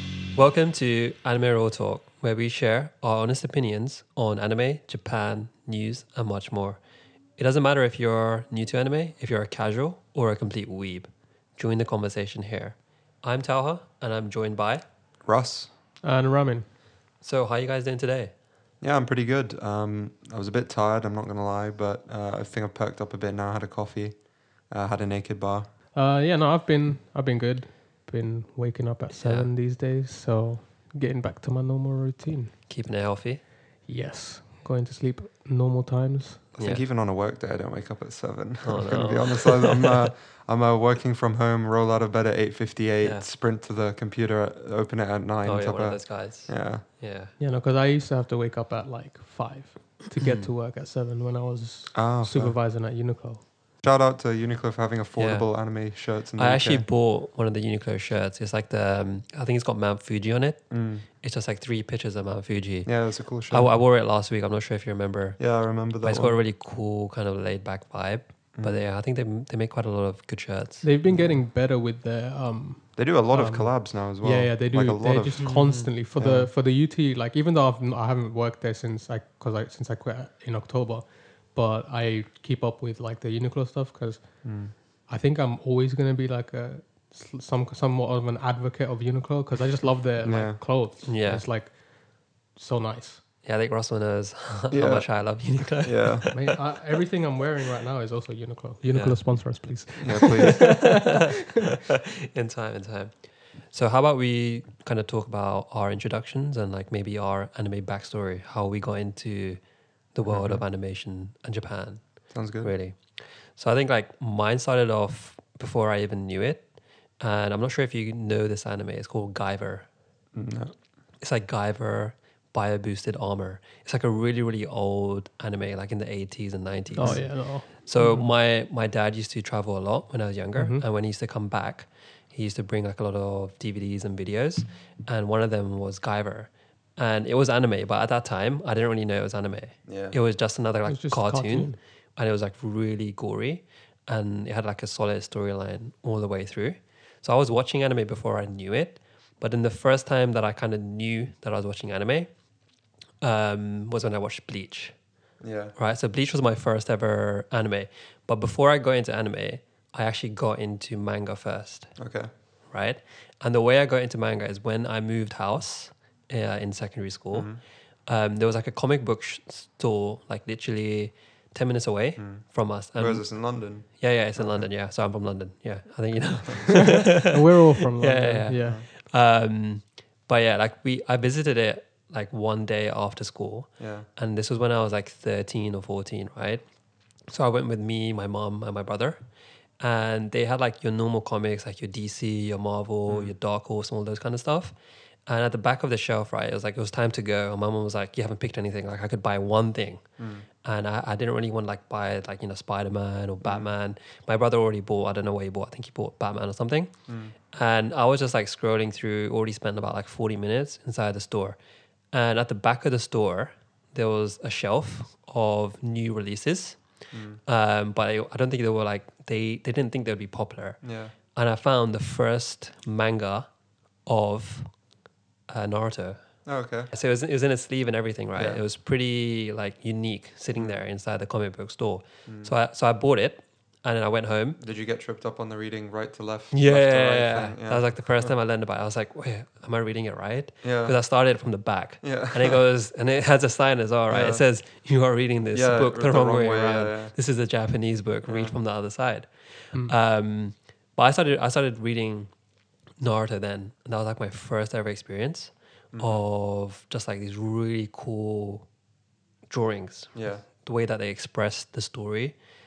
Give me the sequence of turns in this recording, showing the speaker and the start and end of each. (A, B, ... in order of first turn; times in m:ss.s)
0:00.3-0:06.8 A
0:07.4-0:14.8 A
0:15.2-0:15.7 B
0:16.0-0:16.7 C
0:17.2-0:18.3 A
0:18.8-0:25.7 B
0:25.9-0:32.5 C
0:29.1-0:29.5 A
0:32.7-0:33.5 A
0:33.9-0:36.5 C
0:36.6-0:36.9 A
0:36.6-0:46.8 B
0:38.6-0:40.1 A
0:43.0-0:43.3 A
0:45.4-0:47.3 A
0:47.4-0:53.4 C
0:50.2-0:50.5 A
0:51.9-0:52.6 B
0:53.8-0:56.8 B
0:55.2-1:10.9 A
1:00.7-1:01.0 B
1:02.8-1:03.7 B
1:05.4-1:06.4 B
1:10.8-1:33.2 C
1:11.1-1:11.4 B
1:13.0-1:15.6 B
1:15.4-1:15.9 A
1:16.2-1:16.5 B
1:24.4-1:24.7 B
1:30.2-1:30.6 B
1:31.1-1:31.4 A
1:33.4-1:36.5 A
1:34.7-1:36.3 B
1:36.3-1:40.8 C
1:38.9-1:39.8 A
1:40.0-1:40.9 B
1:40.5-1:41.6 A
1:42.3-1:56.7 A
1:50.2-1:50.6 B
1:52.3-1:52.7 B
1:57.2-1:59.9 A
2:00.4-2:00.7 B
2:01.2-2:32.3 A
2:07.0-2:08.3 C
2:07.0-2:07.3 B
2:10.6-2:10.8 C
2:19.9-2:20.2 B
2:20.9-2:21.8 C
2:33.2-2:35.0 A
2:35.4-2:35.7 B
2:35.8-2:42.0 A
2:42.0-2:42.3 B
2:42.7-2:57.3 A
2:47.3-2:47.6 B
2:52.2-2:54.7 B
2:57.2-2:58.8 C
2:58.0-3:06.7 A
2:58.6-2:58.9 B
3:03.8-3:04.1 B
3:07.2-3:14.7 A
3:13.1-3:13.3 B
3:15.3-3:20.0 A
3:20.2-3:20.4 B
3:20.6-3:27.0 A
3:23.4-3:23.7 B
3:27.1-3:27.3 B
3:27.5-3:31.6 A
3:32.1-3:43.5 A
3:37.1-3:37.4 B
3:40.8-3:41.1 B
3:44.0-3:44.7 A
3:45.5-3:54.6 A
3:46.4-3:46.9 B
3:48.4-3:48.6 B
3:52.3-3:52.5 B
3:54.6-3:58.3 B
3:56.5-4:12.3 A
4:00.6-4:01.0 B
4:02.0-4:02.6 B
4:04.1-4:04.5 B
4:05.5-4:07.2 B
4:08.3-4:08.6 B
4:13.0-4:18.7 A
4:15.9-4:16.2 B
4:19.5-4:22.4 A
4:20.2-4:20.4 B